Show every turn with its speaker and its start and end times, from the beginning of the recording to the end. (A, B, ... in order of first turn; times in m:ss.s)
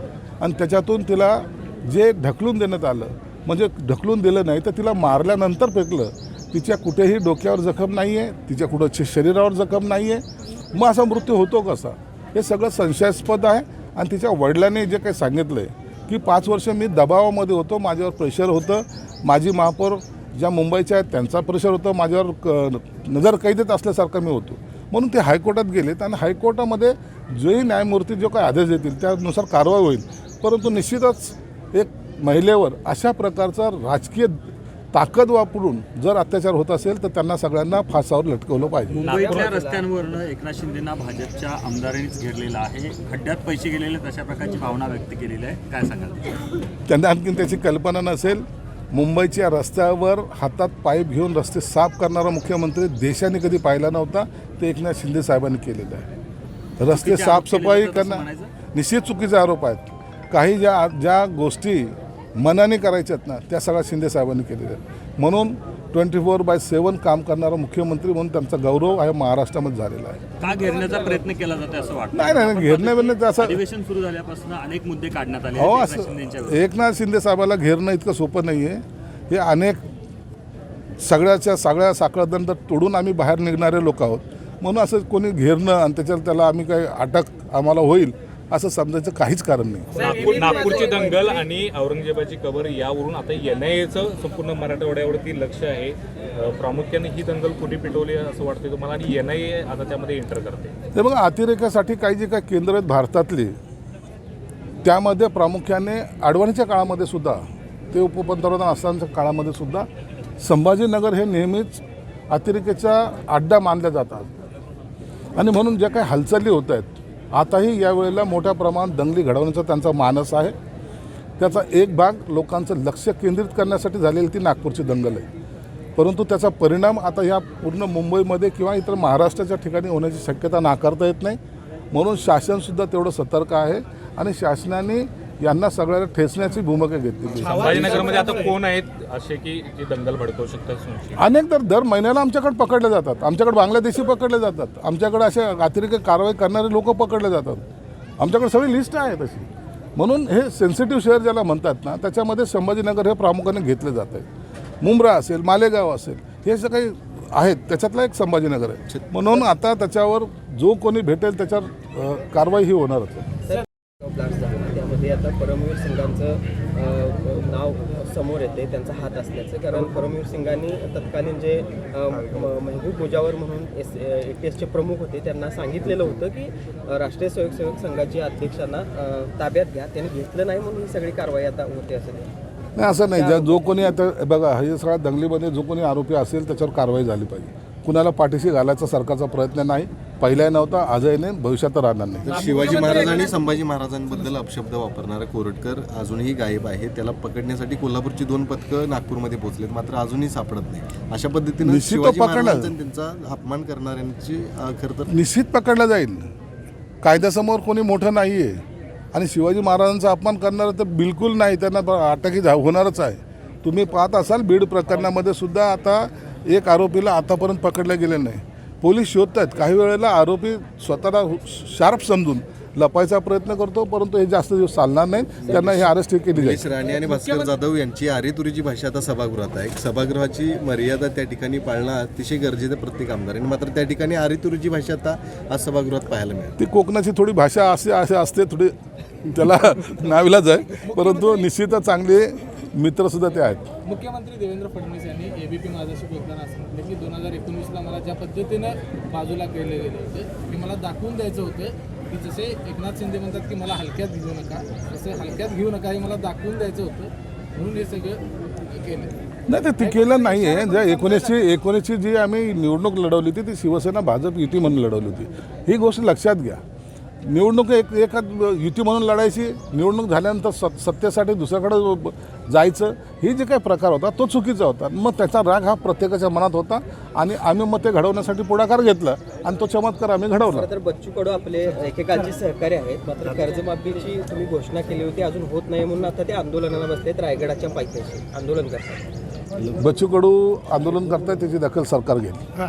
0:00.4-0:34.4 A
0:34.9-0:39.0 A
0:38.9-0:46.3 B
0:39.0-0:39.4 C
0:39.0-0:39.9 D
0:46.9-0:56.1 A
0:56.8-1:10.2 A
0:56.8-0:58.5 B
1:10.4-1:16.6 B
1:12.1-1:13.6 A
1:15.6-1:19.8 A
1:21.0-1:30.0 A
1:30.0-1:40.8 C
1:30.0-1:30.8 E
1:40.9-1:43.6 A
1:44.8-1:49.9 A
1:50.4-1:54.3 A
1:55.4-2:00.6 A
2:01.4-2:05.2 A
2:06.0-2:11.4 A
2:11.9-2:18.2 A
2:17.4-2:18.6 E
2:17.4-2:21.2 C
2:21.2-2:27.6 A
2:28.2-2:34.3 A
2:34.8-2:43.3 A
2:38.9-2:39.4 F
2:43.4-3:02.3 D
3:02.8-3:12.5 A
3:03.1-3:03.6 D
3:12.2-3:25.1 F
3:12.3-3:13.4 E
3:21.6-3:22.7 A
3:25.1-3:26.3 A
3:27.0-3:46.7 A
3:45.4-3:56.6 F
3:45.5-3:45.7 D
3:46.8-3:47.5 E
3:56.6-4:03.7 A
4:00.8-4:01.5 E
4:03.8-4:19.1 E
4:19.5-4:26.6 A
4:19.8-4:21.5 E
4:27.2-4:40.7 A
4:40.5-4:49.0 D
4:49.8-4:52.5 A